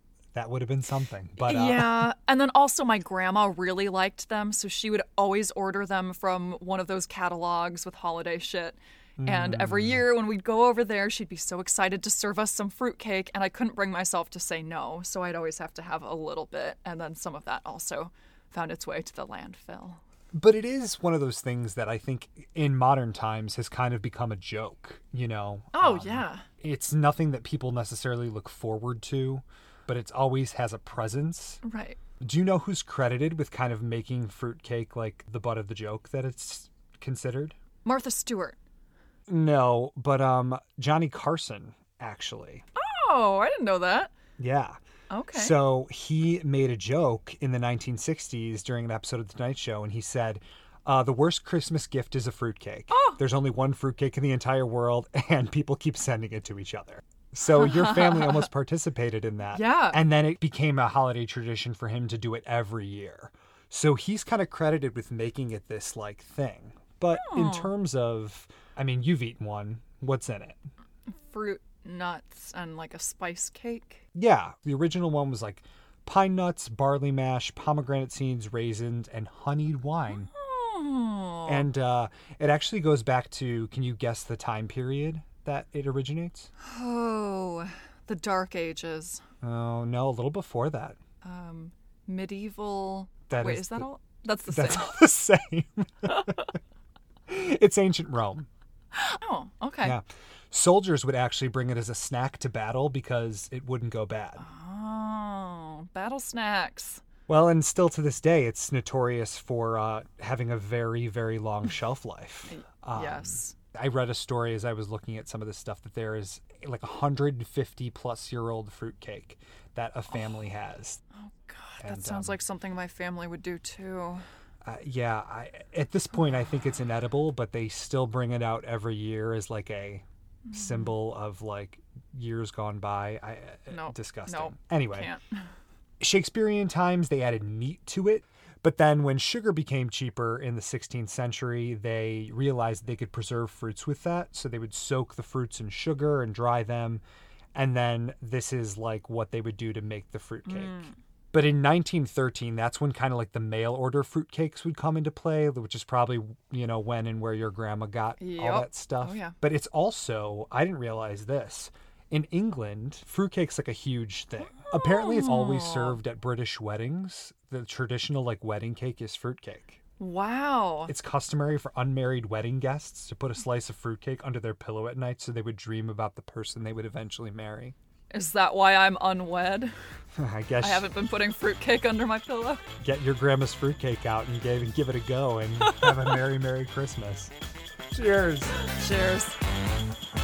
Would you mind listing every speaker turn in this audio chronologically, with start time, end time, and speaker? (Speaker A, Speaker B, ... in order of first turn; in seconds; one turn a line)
Speaker A: 0.3-2.1
Speaker B: 1.4-20.0
Speaker A: 9.2-10.1
Speaker A: 20.3-31.6
Speaker B: 25.7-26.4
Speaker B: 31.6-32.0
Speaker A: 32.2-37.6
Speaker B: 37.8-38.6
Speaker A: 39.3-42.6
Speaker B: 42.8-44.1
Speaker A: 44.4-44.8
Speaker B: 45.1-45.6
Speaker A: 45.3-70.6
Speaker B: 52.9-53.2
Speaker B: 57.5-58.5
Speaker B: 59.5-60.0
Speaker B: 67.1-67.7
Speaker B: 71.1-74.0
Speaker A: 74.1-80.3
Speaker B: 80.1-81.7
Speaker A: 81.5-86.5
Speaker B: 86.6-89.2
Speaker A: 89.4-91.0
Speaker B: 91.2-95.0
Speaker A: 93.3-93.9
Speaker A: 94.5-96.5
Speaker A: 97.3-98.5
Speaker B: 98.9-100.0
Speaker A: 99.8-104.4
Speaker B: 104.4-107.0
Speaker A: 107.3-121.0
Speaker B: 112.5-113.5
Speaker B: 120.1-120.4
Speaker B: 121.2-124.2
Speaker A: 121.8-122.4
Speaker A: 124.6-135.1
Speaker B: 130.4-130.9
Speaker B: 133.7-135.2
Speaker A: 136.0-147.0
Speaker A: 147.5-169.8
Speaker B: 150.4-150.9
Speaker B: 158.2-159.3
Speaker B: 164.6-166.0
Speaker B: 170.0-170.9
Speaker A: 170.9-177.7
Speaker B: 178.1-179.7
Speaker A: 180.2-180.9
Speaker B: 180.6-182.7
Speaker A: 182.8-187.3
Speaker A: 187.9-188.6
Speaker B: 188.6-189.4